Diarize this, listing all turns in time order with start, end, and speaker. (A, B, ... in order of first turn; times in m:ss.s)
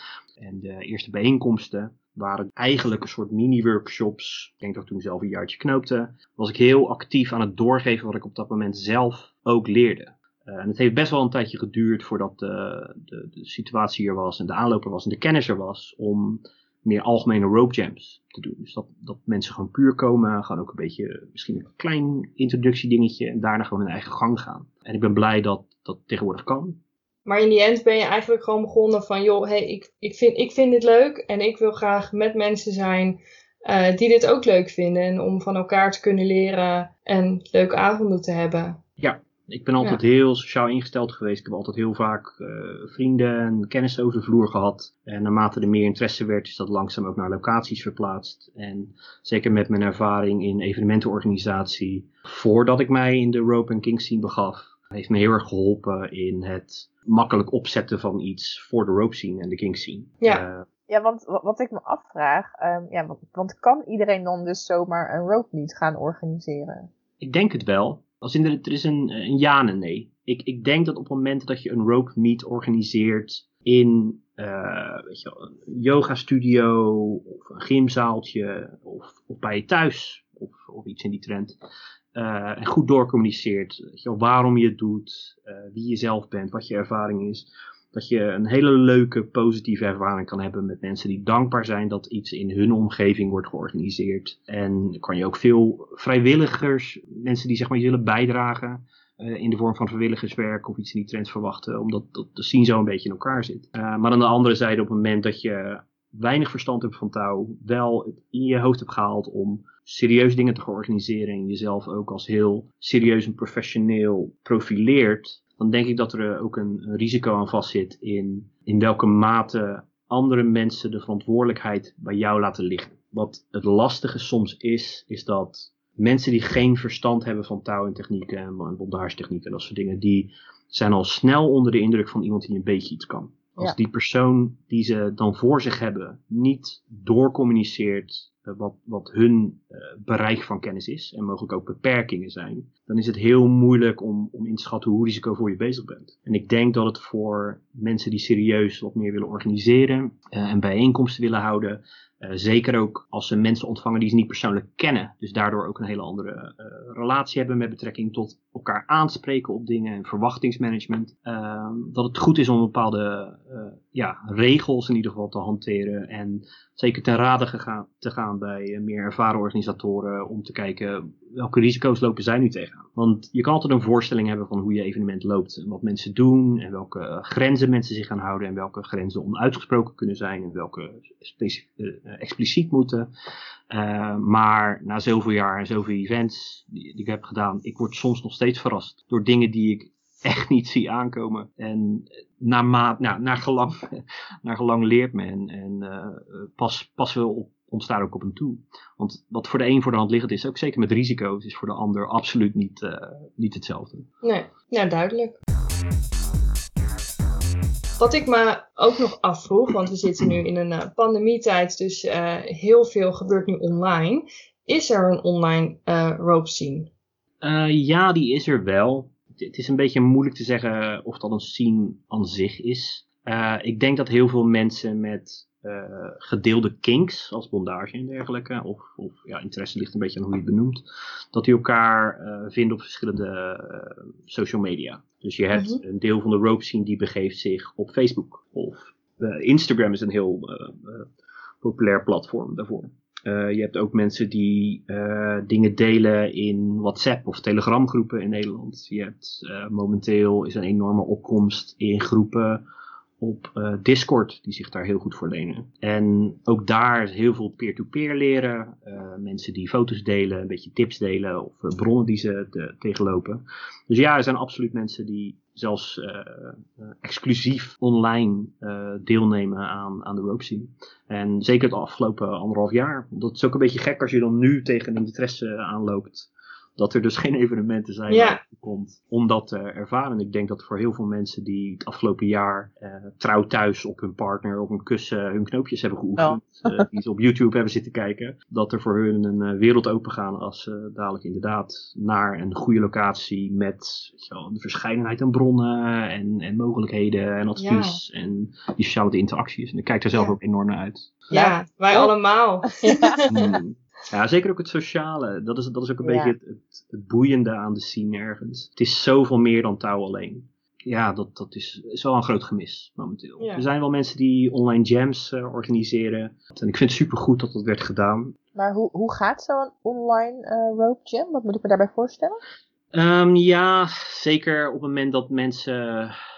0:00.4-0:26.8 A
0:27.2-0:38.8 B
0:39.0-1:00.6 A
1:00.9-1:06.9 C
1:07.2-1:21.6 A
1:22.1-3:03.1 A
3:03.7-3:24.1 A
3:24.2-3:25.4 B
3:28.0-3:36.9 B
3:37.4-4:01.1 A
3:55.5-3:55.8 B
4:01.6-4:12.6 A
4:13.2-5:01.1 A
4:38.1-4:38.4 B
4:46.2-4:46.8 C
4:57.6-4:58.0 B
5:01.3-5:02.1 C
5:01.3-5:03.5 B
5:02.8-5:03.2 C
5:03.3-5:18.3 A
5:06.0-5:06.3 C
5:13.4-5:13.6 B
5:18.6-5:22.4 C
5:22.9-5:26.2 A